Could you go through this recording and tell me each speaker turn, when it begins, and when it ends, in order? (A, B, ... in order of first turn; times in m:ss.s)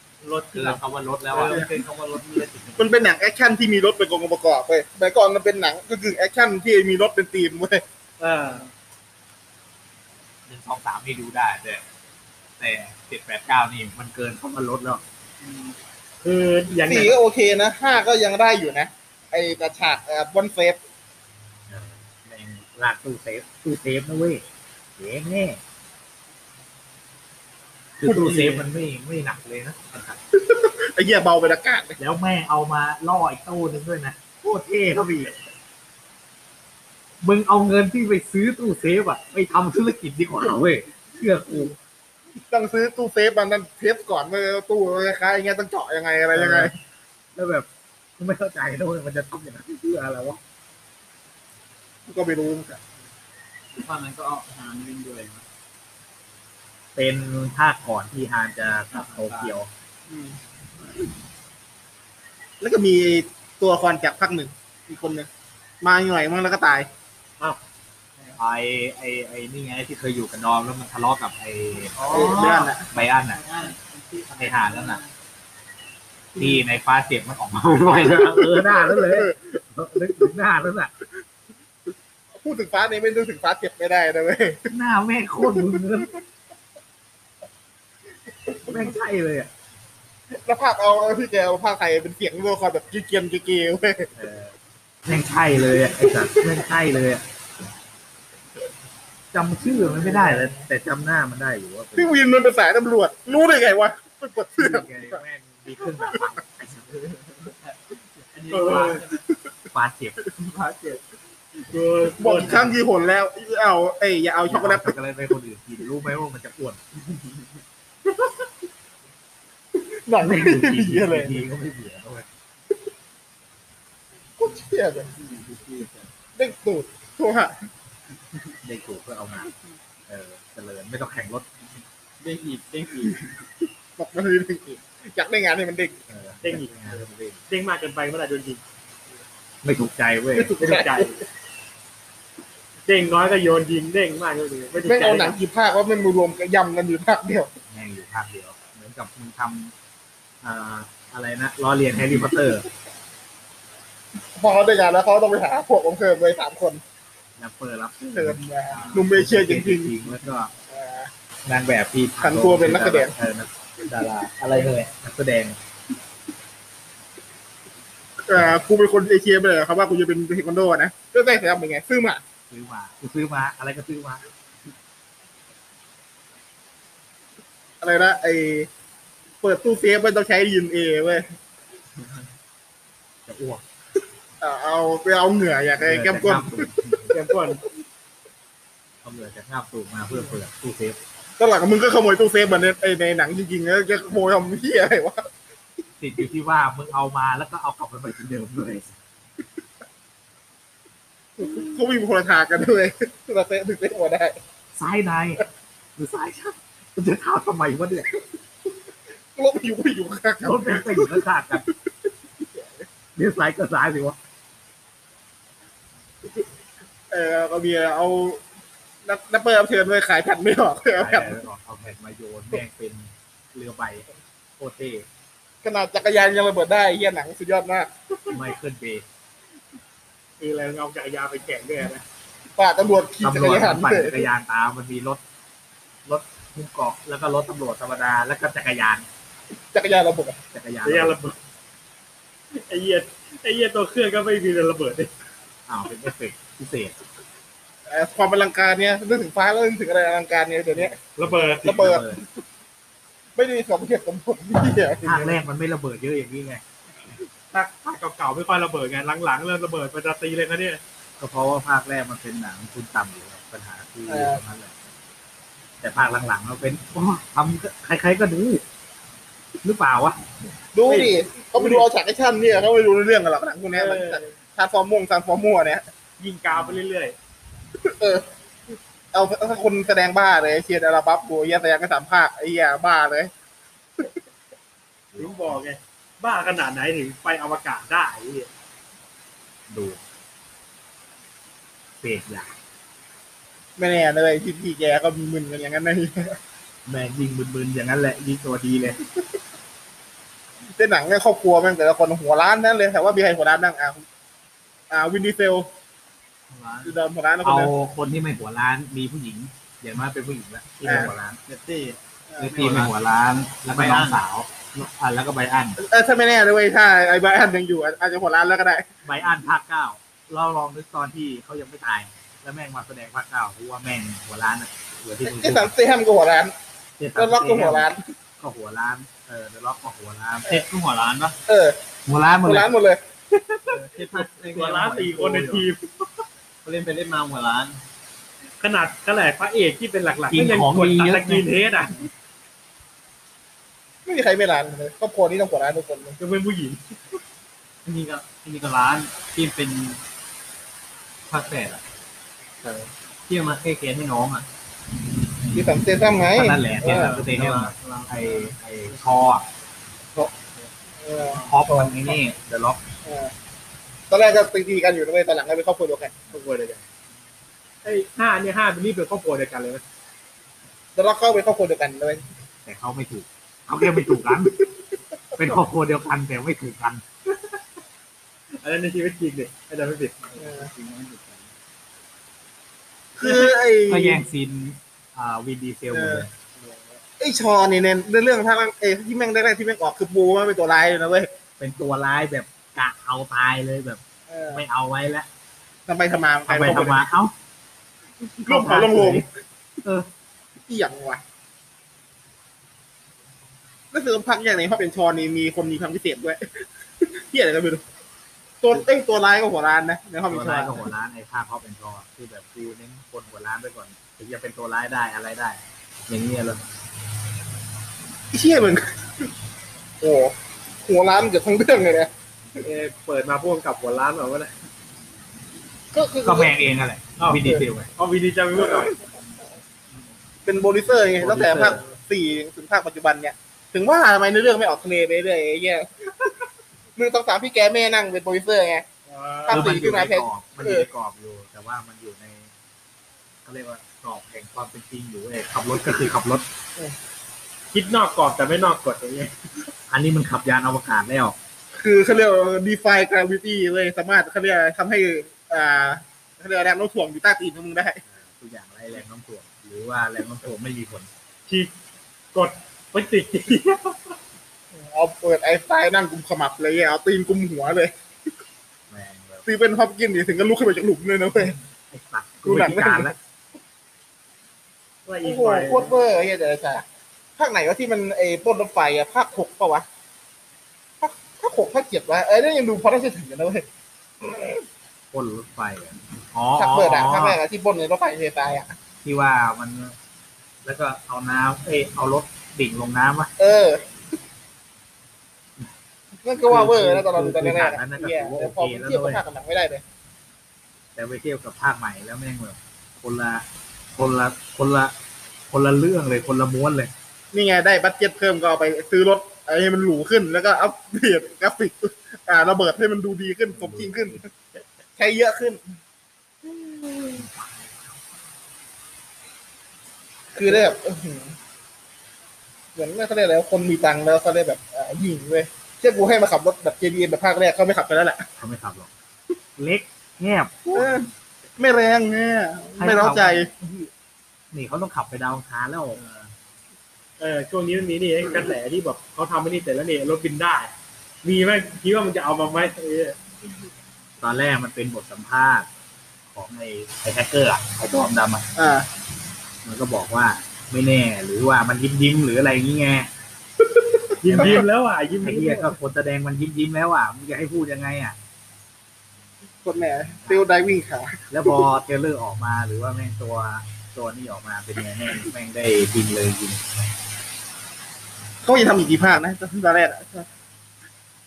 0:00.2-0:03.0 A
0:00.5-0:01.7 B
0:02.8-0:07.8 C
0:08.2-0:08.6 D
0:10.5-0:11.8 B
0:12.6-0:15.0 B
0:16.2-0:17.2 D
0:16.9-0:20.8 C
0:21.7-0:24.4 B
0:25.0-0:25.6 B
0:28.0-0:30.2 B
0:28.3-0:28.5 C
0:30.3-0:32.0 C
0:32.0-0:35.3 B
0:37.2-0:41.8 B
0:42.5-0:46.7 C
0:46.3-0:46.7 B
0:47.3-0:47.7 B
0:48.2-0:50.4 B
0:52.1-0:52.8 C
0:53.7-0:55.4 A
0:57.0-0:59.7 B
0:58.9-0:59.5 A
1:02.6-1:05.3 C
1:05.8-1:06.9 C
1:08.4-1:12.0 B
1:11.9-1:12.8 A
1:12.1-1:12.8 C
1:12.9-1:13.4 B
1:13.3-1:15.1 A
1:14.4-1:15.0 B
1:16.4-1:20.9 B
1:17.9-1:18.4 A
1:18.9-1:19.4 C
1:22.4-1:24.7 C
1:24.7-1:26.1 B
1:25.5-1:25.8 C
1:28.5-1:28.8 C
1:28.6-1:29.5 B
1:30.3-1:34.1 C
1:34.1-1:34.5 B
1:35.0-1:37.2 B
1:39.3-1:42.2 B
1:40.1-1:40.4 C
1:42.0-1:45.2 C
1:44.6-1:47.2 B
1:47.4-1:49.2 A
1:48.5-1:49.0 D
1:49.7-1:50.2 B
1:50.6-1:51.0 A
1:51.7-1:52.7 D
1:52.2-1:54.9 C
1:54.4-1:56.8 B
1:59.8-2:01.4 C
2:00.2-2:02.3 B
2:04.4-2:05.1 C
2:05.2-2:06.1 A
2:06.4-2:07.6 C
2:08.6-2:09.5 B
2:10.1-2:11.5 B
2:12.2-2:13.3 A
2:14.0-2:16.0 C
2:16.1-2:17.4 B
2:16.4-2:16.7 D
2:17.5-2:18.6 D
2:19.6-2:20.6 B
2:20.4-2:21.1 C
2:20.5-2:21.2 D
2:22.8-2:25.4 D
2:24.8-2:27.5 C
2:27.7-2:29.7 B
2:30.4-2:32.7 B
2:34.3-2:36.8 C
2:37.4-2:40.5 B
2:38.1-2:39.9 C
2:40.7-2:41.1 C
2:41.4-2:45.6 B
2:42.2-2:43.1 C
2:48.2-2:52.2 C
2:52.5-2:54.2 B
2:57.8-2:58.7 C
2:59.4-3:01.3 C
3:03.2-3:03.6 B
3:04.4-3:07.0 C
3:05.8-3:07.1 B
3:07.1-3:07.6 D
3:09.0-3:11.0 B
3:11.4-3:15.3 C
3:16.0-3:19.0 B
3:21.4-3:24.4 C
3:24.7-3:25.4 B
3:26.0-3:28.1 B
3:29.4-3:31.2 C
3:30.4-3:31.6 B
3:33.2-3:34.2 B
3:37.1-3:38.4 C
3:39.0-3:41.4 C
3:41.0-3:44.1 B
3:44.6-3:45.0 B
3:45.6-3:48.4 C
3:48.3-3:49.0 B
3:50.4-3:52.0 D
3:52.6-3:54.3 C
3:53.2-3:55.2 B
3:56.0-3:59.0 B
3:59.7-4:00.4 C
4:00.5-4:01.2 B
4:00.8-4:01.4 D
4:02.5-4:05.1 D
4:05.7-4:07.0 B
4:07.9-4:11.0 C
4:10.7-4:12.2 B
4:11.2-4:12.0 D
4:11.6-4:12.0 C
4:13.4-4:15.3 C
4:15.0-4:16.6 B
4:17.5-4:20.8 D
4:21.2-4:24.8 B
4:24.1-4:24.4 C
4:25.8-4:28.6 B
4:29.6-4:30.2 B
4:30.7-4:35.8 C
4:30.8-4:31.8 D
4:33.7-4:34.3 D
4:36.2-4:37.1 D
4:36.5-4:36.8 B
4:37.8-4:38.2 C
4:39.1-4:43.3 C
4:45.1-4:45.6 B
4:45.2-4:48.5 D
4:49.7-4:50.0 B
4:52.0-4:52.5 B
4:53.8-4:56.4 C
4:56.9-4:59.0 B
5:00.8-5:04.0 C
5:04.9-5:05.7 C
5:06.5-5:06.9 A
5:06.8-5:07.7 C
5:07.4-5:11.4 B
5:10.8-5:11.1 C
5:11.5-5:12.9 A
5:12.4-5:15.8 B
5:13.7-5:14.2 A
5:15.8-5:18.9 C
5:19.0-5:25.7 B
5:25.2-5:26.5 C
5:27.0-5:30.6 B
5:27.1-5:28.0 C
5:30.4-5:31.4 A
5:31.5-5:31.8 C
5:32.0-5:32.7 B
5:32.4-5:33.0 C
5:33.7-5:35.6 A
5:34.1-5:35.8 D
5:36.6-5:37.8 A
5:38.6-5:42.1 D
5:40.3-5:41.5 B
5:44.0-5:46.2 C
5:46.2-5:47.2 D
5:47.8-5:50.0 A
5:51.3-5:51.8 A
5:53.3-5:54.4 A
5:55.5-5:57.1 C
5:56.3-5:59.4 B
5:56.8-5:59.2 A
6:01.0-6:02.0 C
6:01.4-6:02.8 B
6:03.0-6:03.3 C
6:04.1-6:06.2 C
6:06.3-6:06.8 D
6:07.8-6:09.8 D
6:11.0-6:12.2 C
6:12.6-6:14.6 B
6:15.4-6:17.0 B
6:18.5-6:20.2 D
6:20.3-6:21.4 A
6:20.4-6:20.7 C
6:23.2-6:24.2 C
6:23.2-6:23.5 D
6:23.9-6:26.3 B
6:25.9-6:26.2 C
6:26.6-6:26.8 D
6:27.2-6:31.3 C
6:31.6-6:34.0 B
6:34.3-6:34.6 C
6:34.5-6:35.3 B
6:35.9-6:37.1 C
6:36.5-6:37.3 B
6:38.4-6:39.2 B
6:38.4-6:39.3 C
6:40.7-6:41.2 C
6:43.9-6:46.5 C
6:47.0-6:47.8 C
6:48.6-6:50.8 C
6:50.3-6:56.6 B
6:58.3-6:59.3 C
7:00.0-7:02.1 C
7:02.6-7:04.5 D
7:05.9-7:06.5 C
7:06.2-7:07.9 B
7:07.2-7:09.0 D
7:08.6-7:08.9 C
7:10.4-7:16.2 C
7:11.2-7:11.8 B
7:17.0-7:18.8 C
7:19.1-7:19.8 D
7:19.5-7:20.9 C
7:19.5-7:22.5 B
7:23.4-7:26.4 B
7:27.7-7:29.3 D
7:29.9-7:31.4 B
7:31.8-7:38.0 C
7:38.1-7:41.1 B
7:42.3-7:44.0 D
7:44.7-7:47.9 C
7:48.9-7:49.4 B
7:49.4-7:51.6 C
7:51.4-7:53.1 B
7:52.4-7:53.2 C
7:55.0-7:56.0 D
7:55.2-7:56.8 C
7:57.4-7:59.8 C
8:01.0-8:03.6 C
8:04.2-8:04.5 C
8:05.1-8:07.4 B
8:06.6-8:08.7 C
8:09.0-8:10.0 B
8:10.6-8:13.3 B
8:13.4-8:13.8 C
8:16.2-8:19.8 C
8:16.4-8:19.2 B
8:21.0-8:23.4 B
8:24.0-8:24.9 B
8:25.5-8:26.9 B
8:27.3-8:34.3 C
8:33.5-8:34.2 B
8:35.0-8:35.6 C
8:36.5-8:37.2 C
8:37.2-8:37.5 B
8:40.3-8:41.3 C
8:42.8-8:48.2 C
8:48.4-8:48.9 B
8:49.6-8:51.0 B
8:50.7-8:53.5 C
8:52.8-8:53.9 B
8:54.5-8:56.2 B
8:57.2-9:00.7 D
9:01.2-9:03.2 D
9:04.2-9:05.7 B
9:06.3-9:08.5 B
9:08.6-9:08.9 C
9:09.6-9:13.1 B
9:14.2-9:15.8 D
9:14.2-9:14.7 B
9:14.3-9:14.6 C
9:15.2-9:18.2 B
9:19.6-9:21.5 C
9:21.3-9:26.6 B
9:28.4-9:30.3 C